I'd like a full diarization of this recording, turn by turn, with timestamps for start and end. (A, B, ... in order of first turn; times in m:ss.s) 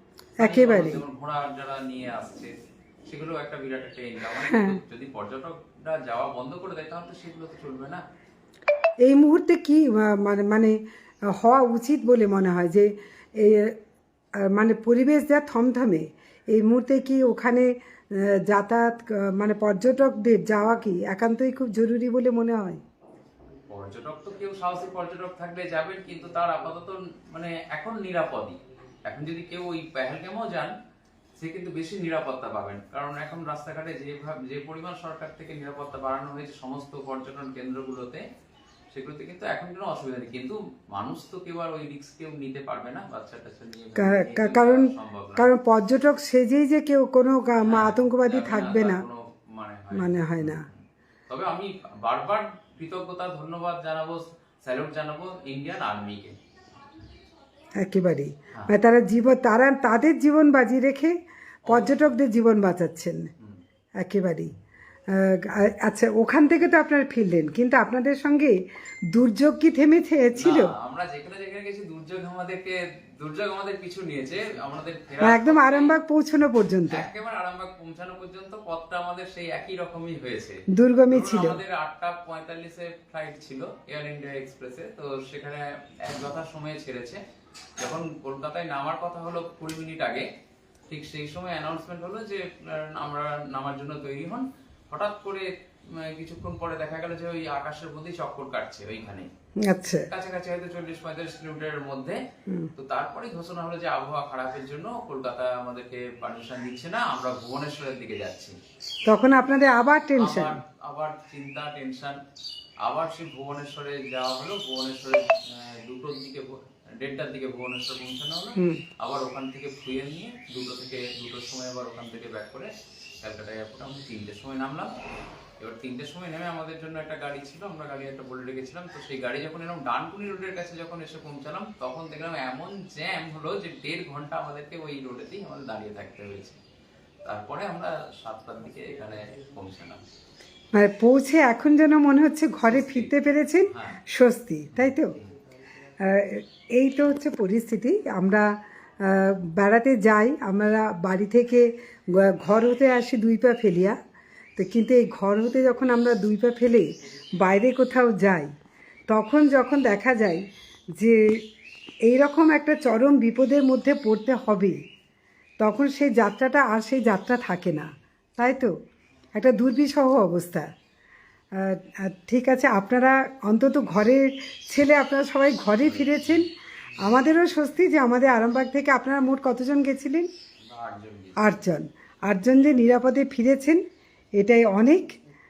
0:00.4-0:02.5 A
0:00.4-0:01.0 B
0:03.1-0:08.0 A
0:04.3-0:04.8 B
0:09.0-0:10.8 B
0:11.4-0:13.8 B
0:14.5-0:22.8 B
0:23.7-0:30.7 A
0:31.4-0:38.2 A
0:38.9-0:45.5 A
0:44.0-0:49.0 B
0:47.6-0:56.3 A
0:49.9-0:50.6 B
0:57.8-1:01.1 B
1:01.7-1:03.3 B
1:01.7-1:02.1 A
1:04.0-1:04.5 B
1:05.1-1:08.6 B
1:09.1-1:10.7 B
1:10.3-1:16.0 A
1:15.2-1:17.1 B
1:16.9-1:20.6 A
1:20.8-1:21.6 B
1:21.1-1:27.2 A
1:27.8-1:30.3 A
1:30.9-1:35.4 A
1:36.0-1:39.3 A
1:39.7-1:40.0 B
1:40.1-1:42.2 A
1:42.8-1:48.6 A
1:49.1-1:50.5 B
1:50.2-1:52.2 A
1:52.8-2:02.7 A
2:03.2-2:04.9 A
2:05.6-2:16.6 A
2:17.2-2:20.0 A
2:20.7-2:25.1 B
2:22.7-2:23.1 A
2:23.7-2:24.0 A
2:24.7-2:25.3 A
2:26.0-2:28.5 B
2:29.0-2:34.0 B
2:34.6-2:36.9 B
2:37.4-2:38.5 B
2:39.1-2:40.4 B
2:41.0-2:41.4 B
2:42.0-2:44.8 B
2:45.6-2:48.7 B
2:49.4-2:50.7 B
2:51.6-2:56.5 B
2:55.8-2:56.4 A
2:57.0-3:00.3 B
3:00.6-3:01.5 A
3:01.4-3:03.8 B
3:04.4-3:05.2 B